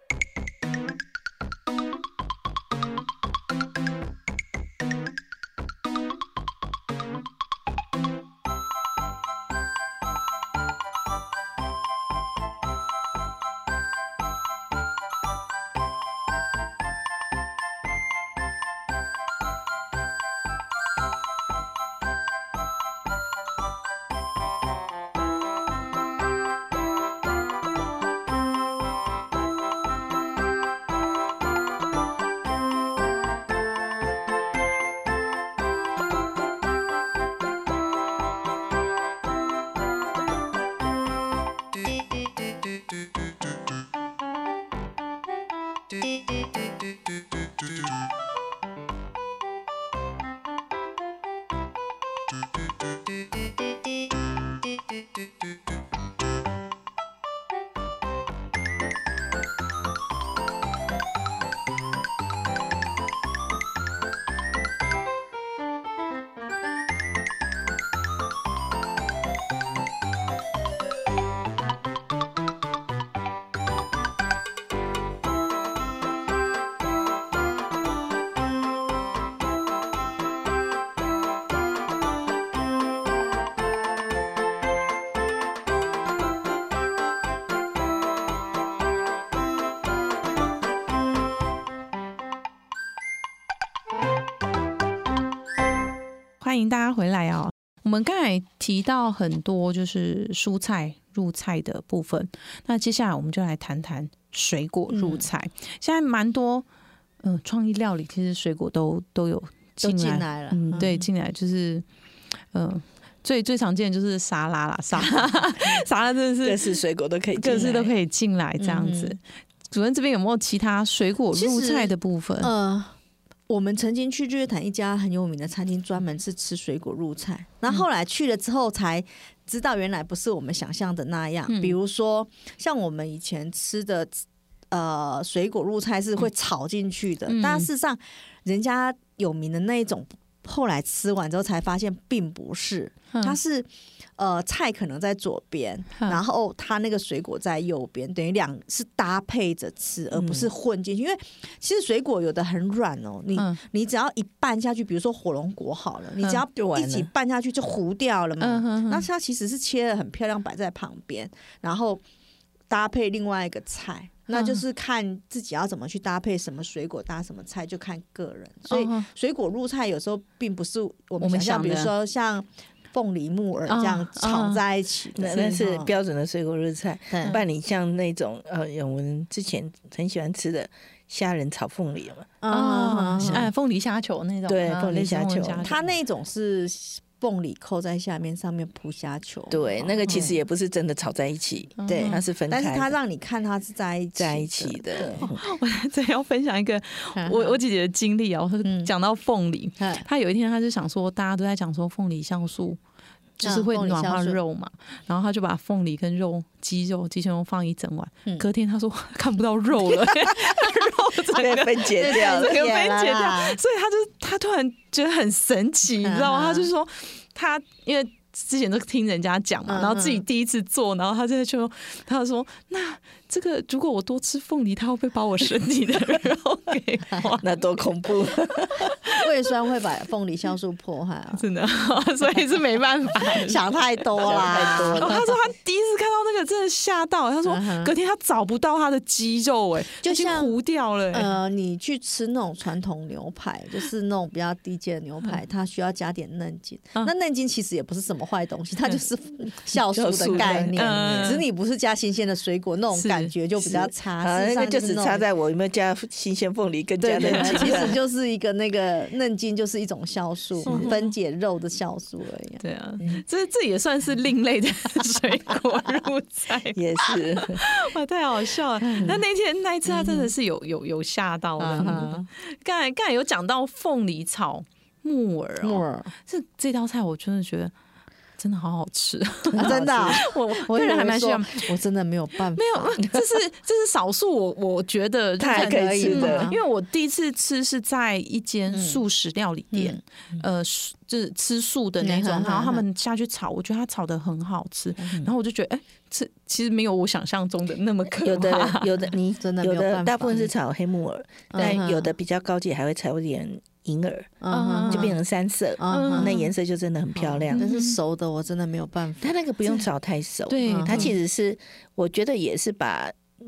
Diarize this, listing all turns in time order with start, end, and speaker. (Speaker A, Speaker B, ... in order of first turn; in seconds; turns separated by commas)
Speaker A: 96.4-106.7, Speaker B: 104.9-105.3, Speaker A: 107.2-111.8, Speaker B: 109.8-111.0, Speaker A: 112.5-116.7, Speaker C: 116.4-117.9, Speaker A: 117.4-122.5, Speaker B: 118.6-119.2, Speaker B: 121.3-123.0, Speaker B: 123.5-162.0, Speaker A: 131.5-131.8, Speaker A: 137.3-137.7, Speaker C: 150.1-150.5, Speaker C: 156.6-157.1, Speaker A: 158.4-159.1, Speaker B: 162.7-175.9, Speaker A: 164.3-164.6, Speaker A: 168.7-169.1, Speaker A: 171.2-171.9, Speaker A: 173.7-174.6, Speaker C: 175.2-182.3, Speaker B: 177.1-177.4, Speaker B: 182.4-183.5, Speaker A: 182.5-185.8, Speaker C: 184.5-185.7, Speaker B: 185.6-190.3, Speaker C: 189.5-192.9, Speaker A: 191.8-192.2, Speaker B: 191.9-195.3, Speaker C: 194.2-195.4, Speaker A: 195.3-202.8, Speaker B: 197.2-197.6, Speaker B: 198.6-198.9, Speaker B: 199.8-200.1, Speaker A: 203.4-227.6, Speaker B: 203.4-204.4, Speaker C: 211.3-212.7, Speaker B: 211.9-213.6, Speaker B: 216.0-216.7, Speaker B: 219.7-220.2, Speaker C: 227.4-228.9, Speaker A: 228.9-229.2, Speaker B: 229.1-231.4, Speaker A: 231.4-233.7, Speaker B: 233.2-235.3, Speaker C: 234.2-235.2, Speaker A: 234.3-241.3, Speaker B: 237.4-237.9, Speaker B: 240.0-240.6, Speaker B: 241.1-255.2, Speaker C: 249.9-251.4, Speaker A: 250.3-251.4, Speaker A: 252.9-253.3, Speaker C: 253.6-258.0, Speaker B: 257.0-263.2, Speaker A: 257.2-257.9, Speaker C: 260.7-260.9, Speaker A: 260.7-261.1, Speaker A: 262.6-277.7, Speaker C: 266.7-267.6, Speaker B: 268.9-269.2, Speaker B: 269.9-270.3, Speaker B: 271.6-272.3, Speaker B: 275.6-276.1, Speaker A: 278.4-281.7, Speaker C: 279.5-280.2, Speaker B: 279.6-283.0, Speaker A: 282.6-299.1, Speaker C: 285.4-286.5, Speaker B: 285.5-286.6, Speaker B: 288.7-289.0, Speaker B: 289.7-290.0, Speaker B: 292.0-292.8, Speaker C: 298.2-304.4, Speaker B: 299.4-300.5, Speaker B: 301.5-302.1, Speaker A: 301.6-301.8, Speaker B: 304.4-305.1, Speaker A: 304.5-305.1, Speaker C: 304.9-307.6, Speaker B: 305.8-306.3, Speaker A: 305.9-306.5, Speaker A: 307.4-308.0, Speaker B: 307.5-309.4, Speaker C: 309.2-313.2, Speaker A: 310.5-311.1, Speaker B: 310.7-311.1